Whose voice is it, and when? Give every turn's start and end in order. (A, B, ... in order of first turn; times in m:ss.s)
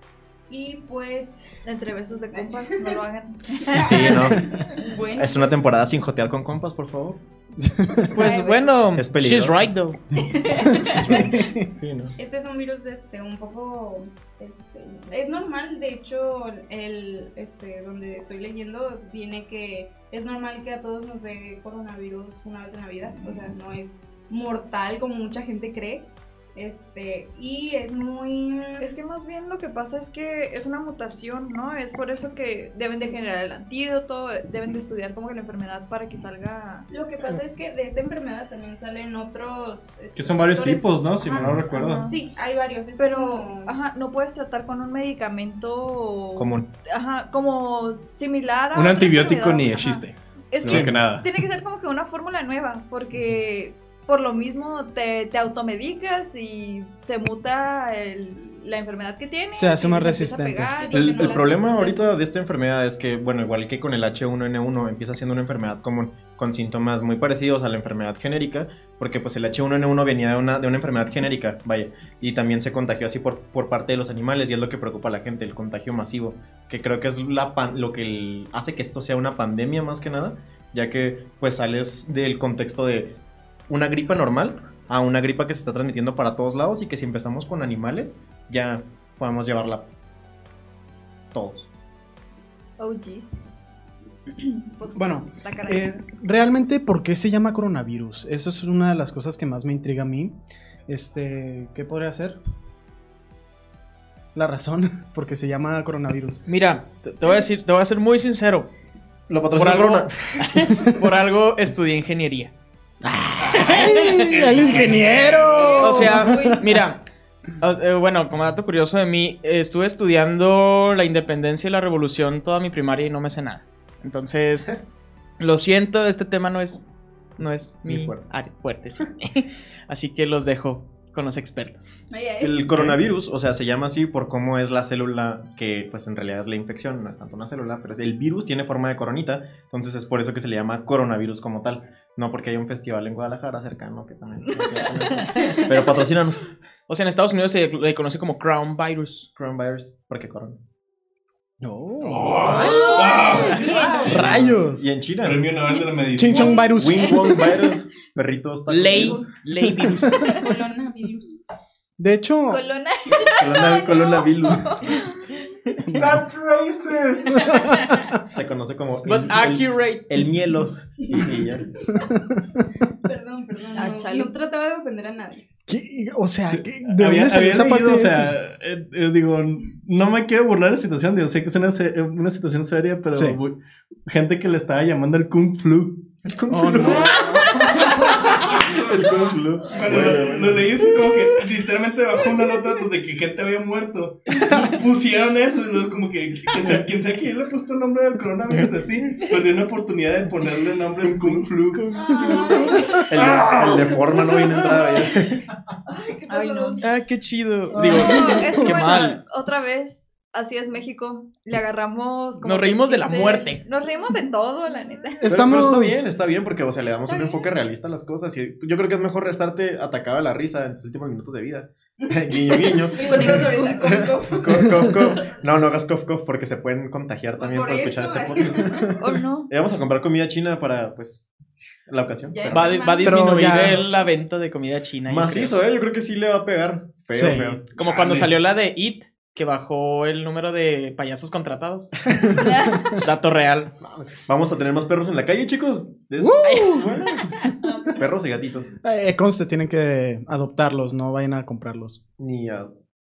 0:00.5-0:01.5 A
0:01.6-0:05.5 B
0:02.3-0:03.0 A
0:03.7-0:05.4 A
0:03.7-0:04.5 C
0:05.2-0:07.2 C
0:07.6-0:08.2 D
0:08.1-0:10.0 E
0:08.1-0:08.8 B
0:09.0-0:09.7 C
0:10.2-0:11.0 B
0:10.6-0:11.6 D
0:10.8-0:12.1 C
0:12.2-0:29.0 A
0:28.8-0:37.3 B
0:33.0-0:33.2 A
0:36.9-0:43.7 A
0:40.1-0:42.1 F
0:41.7-0:42.2 B
0:43.0-1:02.1 B
0:46.4-0:46.7 C
0:48.7-0:51.3 F
0:50.6-0:50.9 D
0:59.5-1:00.7 D
1:00.7-1:01.7 A
1:00.9-1:29.9 C
1:31.3-1:31.7 C
1:32.8-1:33.3 B
1:34.4-1:35.8 B
1:35.0-1:40.4 D
1:40.9-1:42.4 D
1:44.3-1:46.4 D
1:46.5-1:48.7 E
1:49.3-1:50.5 C
1:49.5-1:52.5 E
1:53.0-1:56.7 D
1:53.4-1:55.8 F
1:53.8-1:54.4 E
1:55.5-1:56.6 B
1:55.8-1:57.0 E
1:57.6-2:04.7 E
2:05.4-2:06.8 E
2:07.4-2:11.9 E
2:07.8-2:08.3 C
2:12.1-2:12.6 A
2:12.4-2:26.4 C
2:24.4-2:25.6 B
2:26.9-2:29.3 E
2:29.3-2:30.6 C
2:31.6-2:33.0 D
2:32.0-2:34.4 F
2:32.5-2:34.4 E
2:32.5-2:34.2 B
2:33.9-2:34.9 D
2:34.0-2:35.4 C
2:35.2-2:36.7 F
2:36.2-2:37.4 D
2:36.3-2:37.6 B
2:36.6-2:39.3 C
2:38.7-2:40.3 E
2:38.9-2:39.3 B
2:39.6-2:40.2 D
2:40.2-2:40.5 B
2:40.2-2:41.3 A
2:42.0-2:42.6 D
2:42.5-2:45.4 B
2:43.4-2:44.9 C
2:45.8-2:46.2 D
2:45.9-2:47.2 F
2:47.0-2:47.8 A
2:47.3-2:48.2 D
2:48.3-2:51.7 C
2:49.0-2:50.1 E
2:51.1-2:51.8 A
2:51.9-2:52.6 D
2:53.0-2:55.4 A
2:53.8-2:54.3 B
2:55.7-2:58.3 D
2:56.5-3:06.1 F
3:03.1-3:03.4 D
3:06.2-3:10.8 C
3:06.5-3:07.5 D
3:06.8-3:07.5 A
3:06.9-3:07.9 B
3:08.1-3:09.1 F
3:09.7-3:22.2 F
3:09.9-3:10.2 D
3:21.0-3:21.4 C
3:22.0-3:23.1 A
3:22.2-3:23.0 B
3:22.3-3:23.0 D
3:23.1-3:25.5 C
3:23.2-3:24.4 F
3:25.9-3:26.8 A
3:26.3-3:26.8 B
3:26.8-3:29.2 E
3:27.7-3:29.1 D
3:27.8-3:35.2 B
3:32.4-3:33.6 E
3:35.2-3:36.1 D
3:35.3-3:48.9 C
3:37.1-3:37.5 B
3:42.0-3:45.2 A
3:43.0-3:44.1 B
3:47.4-3:48.9 A
3:49.0-3:49.5 B
3:49.5-3:51.3 C
3:51.9-3:52.8 C
3:52.3-3:53.0 B
3:52.4-3:53.8 A
3:52.5-3:55.5 E
3:53.0-3:53.8 D
3:55.1-3:57.8 C
3:57.1-3:57.6 D
3:57.8-4:01.9 E
3:57.8-3:58.3 F
4:02.4-4:03.0 B
4:02.4-4:03.0 D
4:03.0-4:03.7 E
4:03.8-4:07.3 C
4:06.2-4:07.3 D
4:06.4-4:07.3 E
4:07.6-4:08.1 B
4:08.0-4:08.7 C
4:08.8-4:12.0 D
4:12.2-4:12.8 C